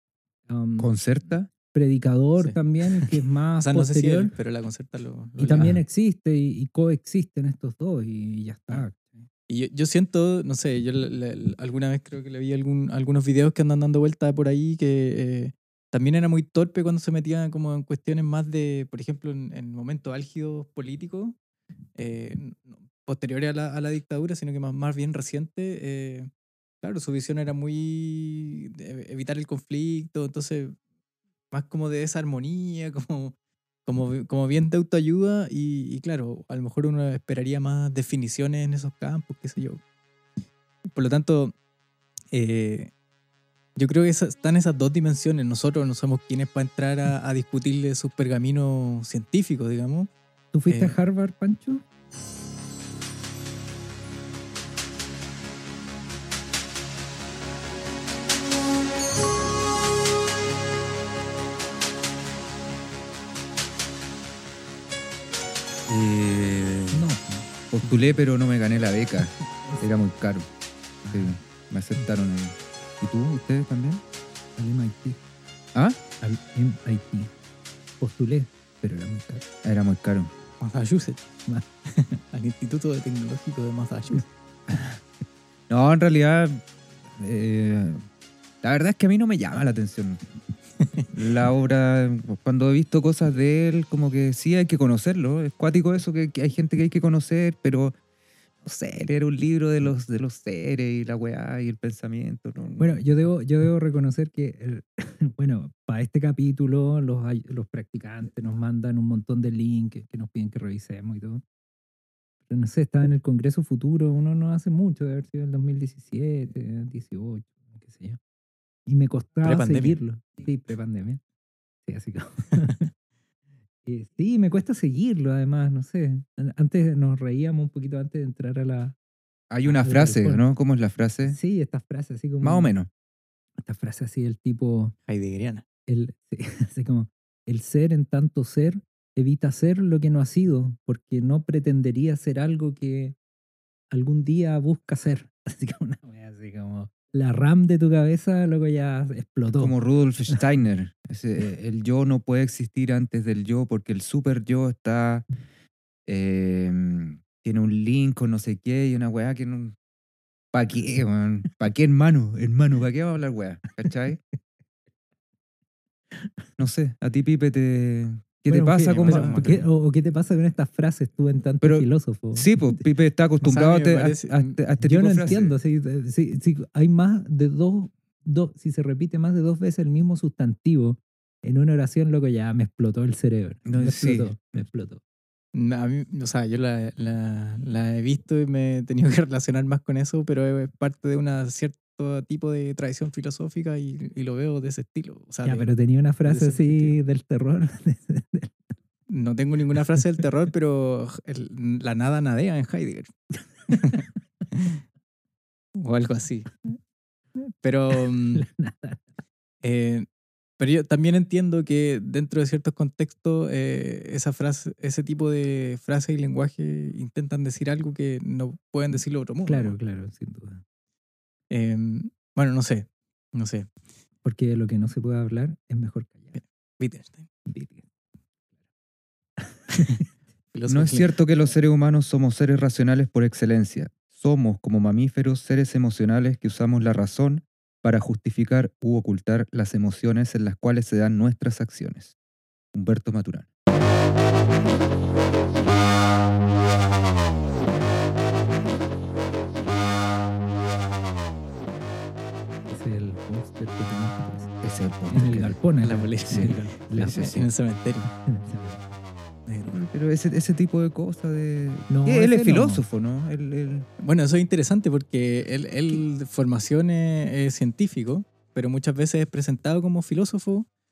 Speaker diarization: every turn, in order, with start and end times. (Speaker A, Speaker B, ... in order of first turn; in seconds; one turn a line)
Speaker A: 0.5-0.9
Speaker B: 0.8-1.5
Speaker A: 1.7-4.3
Speaker C: 2.4-5.7
Speaker A: 5.4-9.3
Speaker C: 9.5-21.4
Speaker C: 22.0-26.3
Speaker C: 26.8-30.8
Speaker C: 31.5-33.3
Speaker C: 33.9-39.8
Speaker C: 40.9-41.5
Speaker C: 42.3-42.9
Speaker C: 43.8-50.1
Speaker A: 50.5-51.8
Speaker C: 50.7-50.9
Speaker B: 65.9-67.0
Speaker A: 66.9-68.1
Speaker B: 67.7-70.5
Speaker A: 71.0-71.4
Speaker B: 71.1-74.0
Speaker A: 74.6-75.2
Speaker A: 76.2-77.3
Speaker A: 78.0-79.4
Speaker B: 79.6-80.3
Speaker C: 80.6-81.2
Speaker C: 81.9-84.2
Speaker B: 85.7-88.0
Speaker B: 88.6-90.2
Speaker C: 90.8-91.1
Speaker B: 91.1-97.9
Speaker B: 98.6-102.9
Speaker A: 102.8-111.4
Speaker A: 112.5-118.2
Speaker A: 118.9-121.2
Speaker C: 119.4-120.0
Speaker A: 121.8-122.9
Speaker A: 123.8-128.9
Speaker B: 129.5-131.4
Speaker A: 129.7-130.4
Speaker A: 131.2-132.7
Speaker B: 132.4-132.9
Speaker A: 133.6-134.9
Speaker C: 135.1-135.6
Speaker A: 135.9-143.2
Speaker A: 143.9-149.8
Speaker B: 149.6-155.2
Speaker B: 156.1-159.8
Speaker B: 160.5-164.2
Speaker B: 166.6-169.5
Speaker A: 168.5-172.8
Speaker C: 169.0-169.6
Speaker B: 171.6-175.5
Speaker C: 173.4-174.6
Speaker A: 174.8-185.0
Speaker B: 183.7-184.7
Speaker C: 185.5-195.7
Speaker A: 195.4-198.6
Speaker C: 196.2-196.9
Speaker C: 199.1-203.1
Speaker C: 203.7-204.8
Speaker C: 205.8-206.5
Speaker C: 207.6-208.4
Speaker A: 208.3-209.1
Speaker C: 209.6-210.1
Speaker C: 210.6-219.8
Speaker A: 219.4-220.6
Speaker C: 221.5-223.7
Speaker A: 224.2-226.4
Speaker C: 226.4-227.3
Speaker A: 227.5-227.8
Speaker A: 229.4-230.0
Speaker C: 230.5-231.2
Speaker B: 230.7-242.1
Speaker B: 242.7-243.5
Speaker A: 252.7-254.5
Speaker B: 254.6-255.6
Speaker A: 255.1-257.5
Speaker C: 255.8-258.1
Speaker B: 256.3-257.4
Speaker A: 258.1-258.9
Speaker C: 259.5-259.8
Speaker B: 259.7-263.9
Speaker A: 261.9-262.8
Speaker C: 264.0-270.7